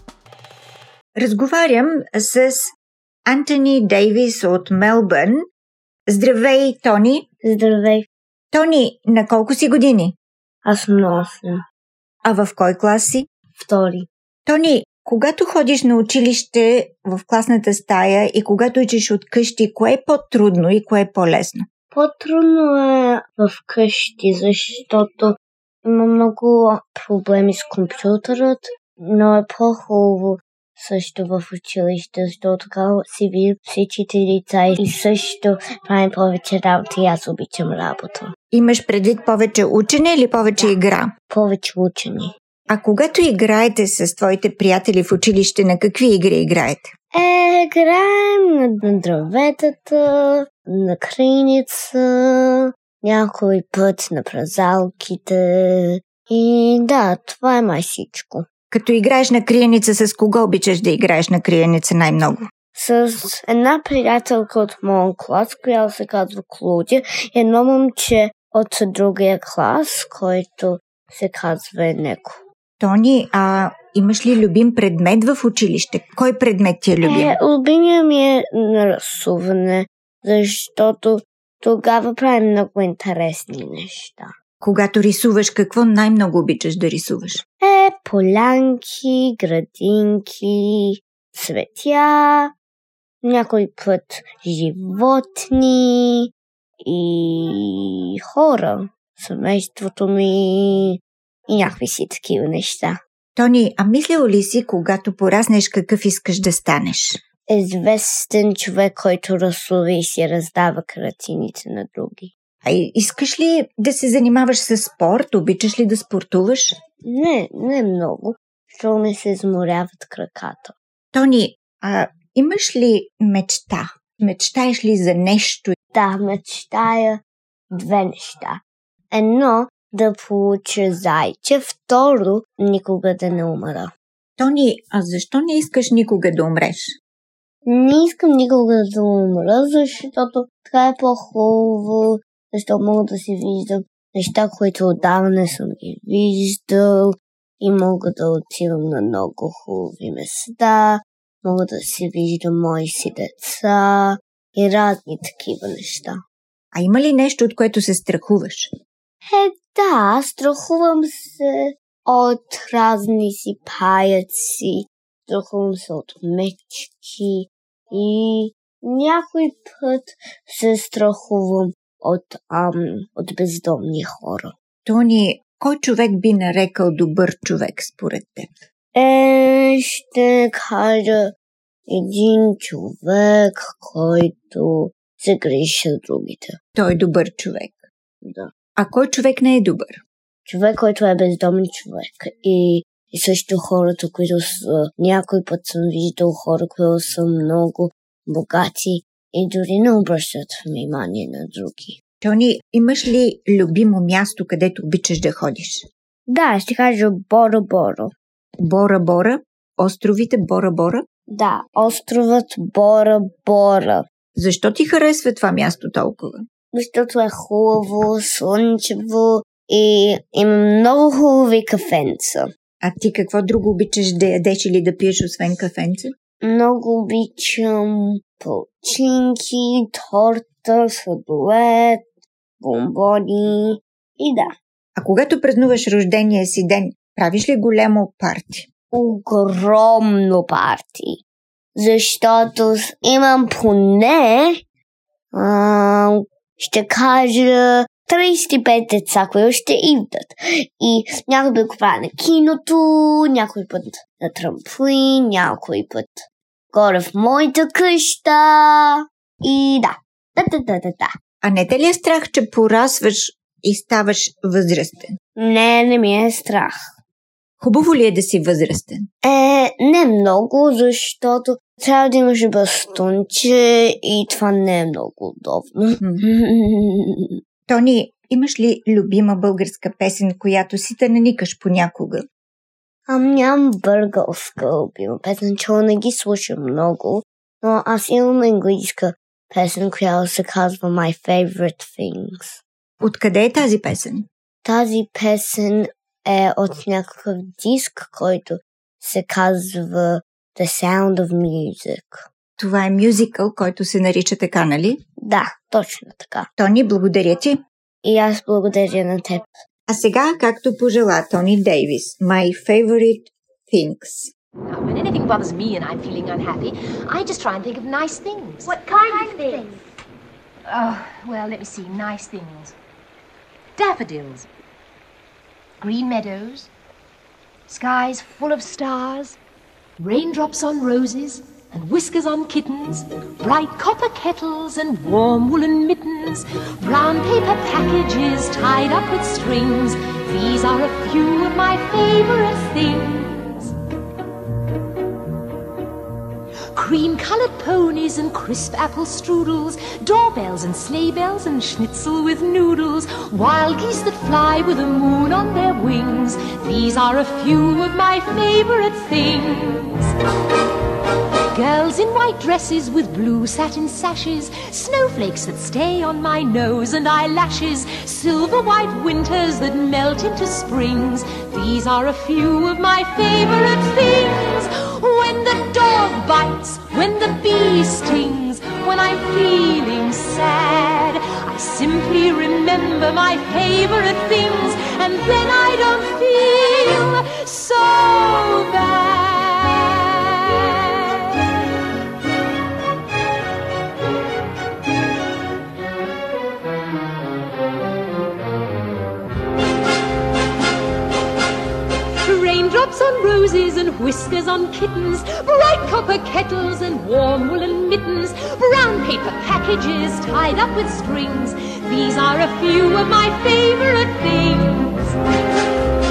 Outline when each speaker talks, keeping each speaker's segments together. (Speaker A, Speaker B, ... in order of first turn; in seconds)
Speaker A: 1.2-2.7, 3.3-5.5, 6.1-7.2, 8.5-10.1, 12.2-13.2, 14.4-21.6, 38.5-41.1, 42.7-46.9, 58.7-62.4, 72.8-77.3, 84.6-87.4, 103.3-107.1, 112.6-116.7, 121.1-125.8, 134.4-136.8, 156.7-158.7, 174.8-178.5, 186.7-187.8, 188.8-190.0, 202.2-205.8, 208.6-211.0, 214.4-216.4, 222.8-226.1, 235.0-238.7, 261.4-265.1, 267.6-269.1, 277.7-282.2, 293.0-294.2, 302.6-305.0, 306.6-307.6, 309.9-314.3
Speaker B: 7.4-8.1, 10.6-11.6, 13.5-14.1, 21.9-38.3, 41.3-42.3, 47.1-58.4, 62.7-72.4, 77.0-84.3, 87.6-92.5, 93.2-96.3, 96.8-103.0, 107.5-112.3, 117.0-120.7, 125.9-133.9, 137.7-156.2, 159.2-174.5, 178.9-181.3, 181.9-186.6, 188.2-188.5, 190.4-201.9, 206.3-208.1, 211.3-214.0, 216.7-222.5, 226.4-232.0, 232.6-234.5, 238.9-241.2, 241.8-244.6, 245.3-261.1, 265.4-266.8, 269.2-277.4, 283.1-292.6, 294.6-302.3, 305.2-306.5, 308.0-309.5
Speaker C: 314.6-319.8, 320.7-322.8, 323.8-324.5, 325.8-326.7, 327.7-329.4, 330.0-343.7, 346.7-360.1, 361.5-391.5, 402.1-415.1